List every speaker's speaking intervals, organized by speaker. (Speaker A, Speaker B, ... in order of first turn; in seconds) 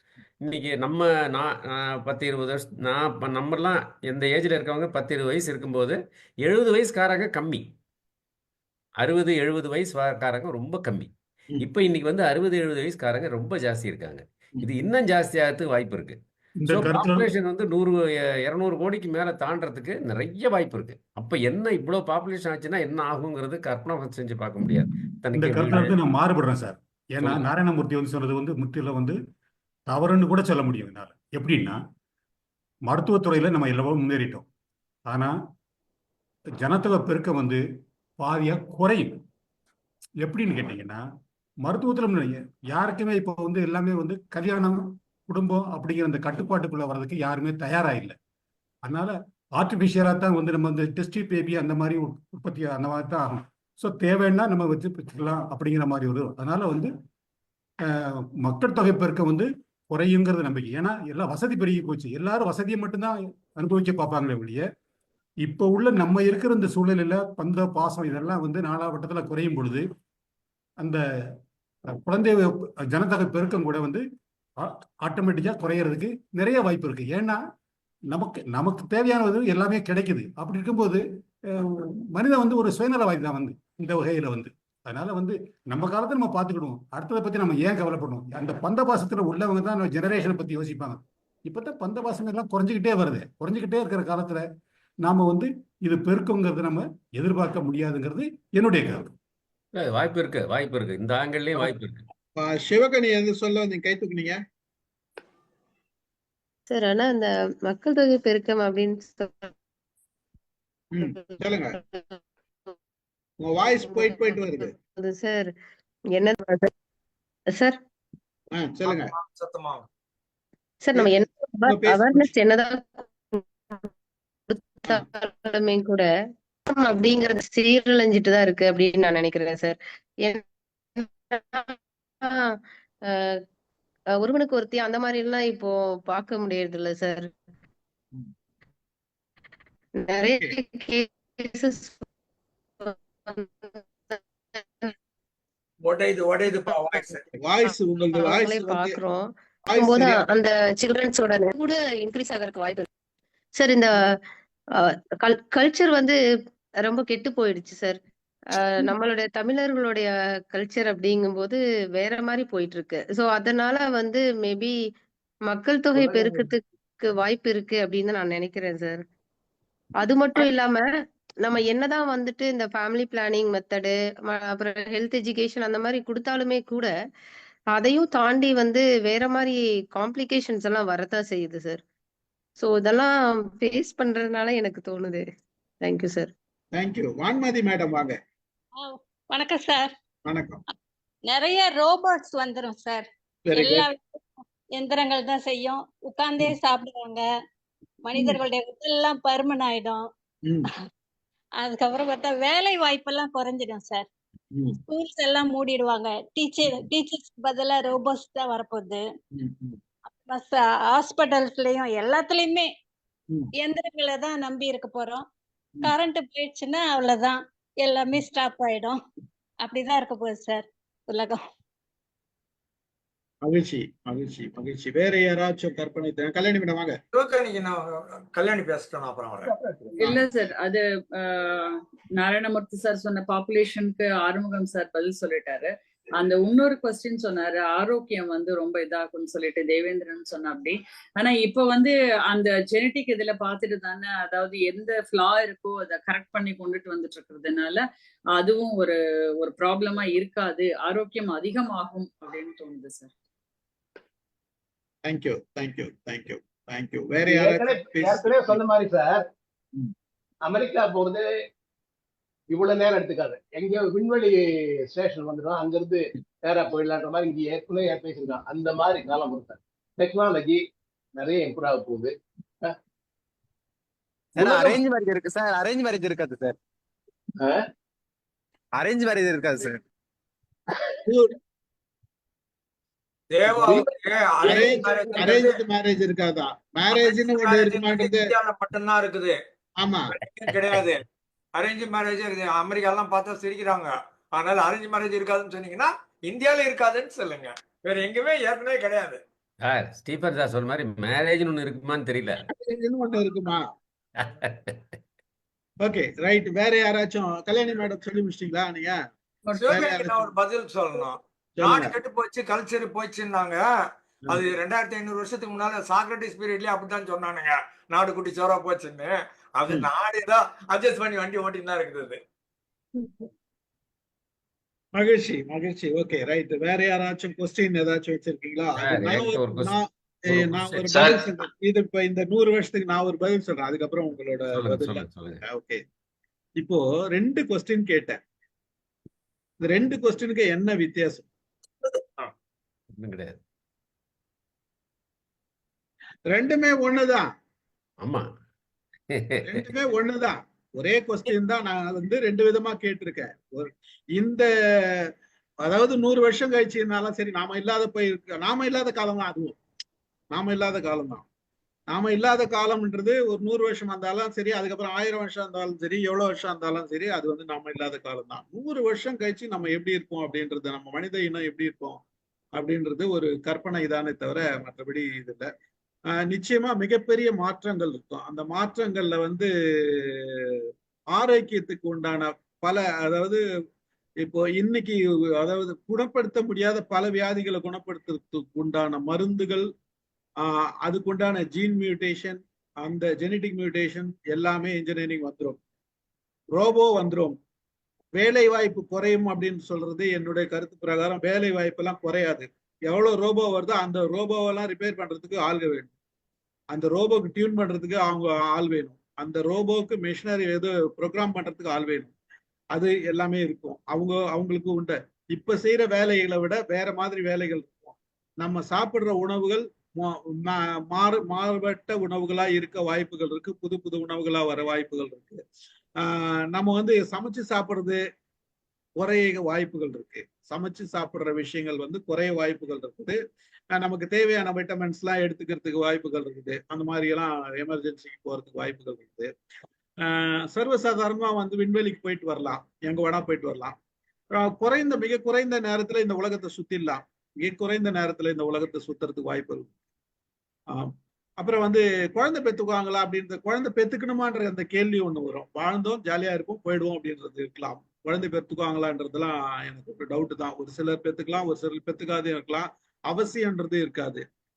Speaker A: 0.4-7.7, 9.0-25.9, 99.8-102.0, 299.6-302.4, 304.2-305.0, 328.8-331.3, 334.5-335.4, 343.0-343.4, 348.0-348.3, 349.1-349.7
Speaker B: 16.6-17.3, 25.3-29.2, 29.9-31.8, 32.9-34.5, 35.1-35.3, 36.6-37.6, 38.2-39.2, 40.2-41.0, 41.6-48.1, 48.8-56.9, 57.9-64.6, 65.4-69.8, 72.0-74.0, 74.6-77.4, 78.1-81.0, 81.5-94.4, 95.0-99.1
Speaker C: 102.3-104.4, 110.9-111.8, 113.4-114.7, 118.5-119.1, 120.9-122.3, 147.4-149.0, 149.7-150.2, 165.9-166.5, 186.7-188.2, 190.2-190.6, 193.5-193.8, 204.5-204.8, 209.3-209.8, 223.4-226.9, 255.0-258.6, 281.1-281.4, 284.4-288.2, 289.8-290.1, 302.5-303.6, 305.8-309.0, 309.7-310.3, 311.6-311.9, 324.9-335.8, 336.6-338.2, 339.6-341.3, 346.3-347.3, 349.4-354.9, 355.6-359.5, 360.3-361.2, 361.9-372.0, 372.6-375.5, 376.3-380.6, 381.1-383.4, 384.2-389.7, 390.4-395.6, 396.5-397.4, 398.1-405.9, 406.7-412.1, 412.7-425.4, 426.0-428.0, 429.0-433.2, 433.7-439.3, 440.0-443.7, 444.3-449.7, 450.7-464.2
Speaker D: 106.7-109.5, 111.0-112.2, 113.9-115.5, 116.1-116.7, 120.8-123.9, 124.5-126.0, 126.7-130.4, 131.0-132.4, 133.1-133.4, 134.2-137.3, 140.0-142.1, 142.8-144.9, 148.2-152.9, 153.6-154.1, 154.8-156.2, 156.8-158.0, 158.6-164.8, 165.5-169.0, 170.0-170.9, 171.4-176.9, 177.7-181.8, 182.6-185.2, 185.8-186.3
Speaker E: 118.9-119.8, 145.8-147.2, 227.1-229.5, 283.3-285.6, 286.9-289.3, 290.1-291.0, 291.6-299.2, 309.6-313.6, 314.3-322.2
Speaker F: 188.8-189.9, 191.3-194.2, 194.8-197.2, 198.0-200.0, 201.6-204.1, 204.9-209.0, 210.2-212.7, 213.6-215.2, 215.8-219.0, 219.6-221.4
Speaker G: 229.4-230.1, 257.3-259.3, 260.4-261.3, 262.5-270.6, 271.2-272.7, 274.4-274.8, 277.4-277.6, 283.5-283.9, 284.4-285.3
Speaker H: 230.0-247.8, 248.3-253.1
Speaker I: 274.4-276.5, 278.8-279.8